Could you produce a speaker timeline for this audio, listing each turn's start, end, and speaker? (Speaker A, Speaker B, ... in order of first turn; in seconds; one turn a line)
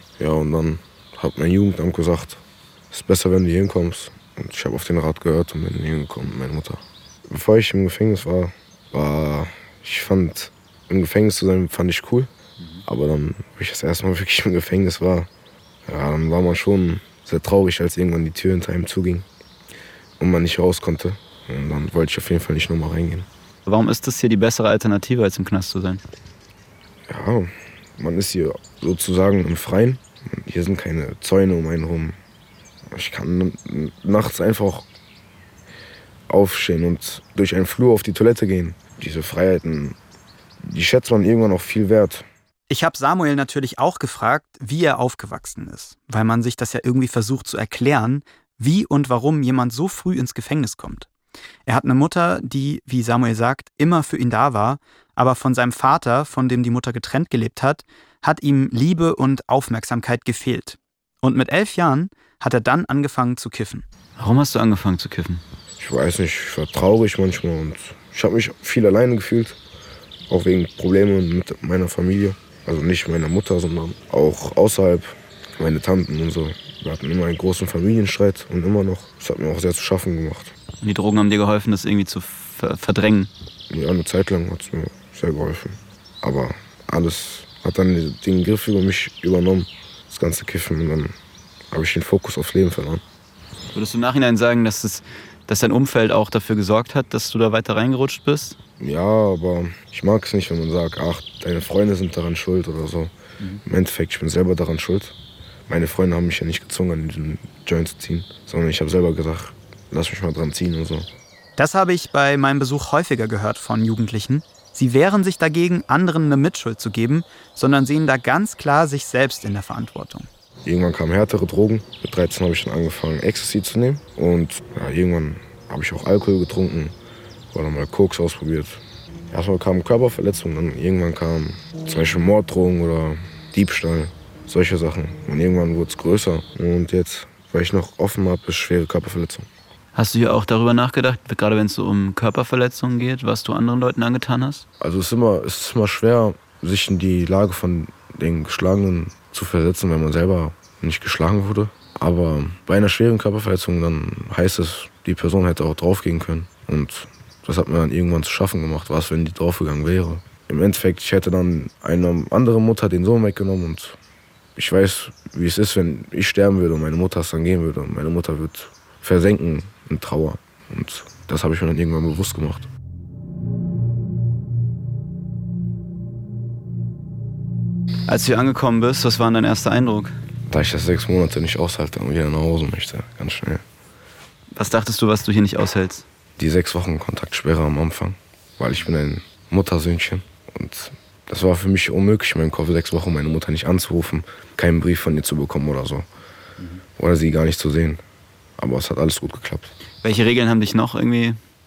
Speaker A: 0.2-12.3
Speaker A: 12.8-15.3
Speaker A: 15.8-19.3
Speaker A: 20.2-23.3
Speaker B: 23.6-26.0
Speaker A: 27.1-32.2
Speaker A: 32.9-34.9
Speaker A: 36.3-40.0
Speaker A: 40.6-42.3
Speaker C: 42.7-51.1
Speaker C: 51.6-63.8
Speaker B: 64.2-65.4
Speaker A: 65.8-69.6
Speaker A: 70.3-80.5
Speaker B: 80.8-83.3
Speaker A: 83.7-91.1
Speaker A: 91.7-93.0
Speaker B: 93.7-98.6
Speaker A: 98.8-103.1
Speaker A: 103.6-105.2
Speaker A: 105.7-111.1
Speaker C: 111.6-120.3
Speaker A: 120.6-126.9
Speaker A: 127.5-139.5
Speaker B: 139.9-144.6
Speaker A: 144.8-164.0
Speaker A: 164.6-172.7
Speaker B: 178.1-180.2
Speaker A: 180.5-183.6
Speaker B: 184.5-186.0
Speaker A: 186.4-196.1
Speaker A: 197.0-198.0
Speaker A: 198.6-199.7
Speaker B: 200.0-201.4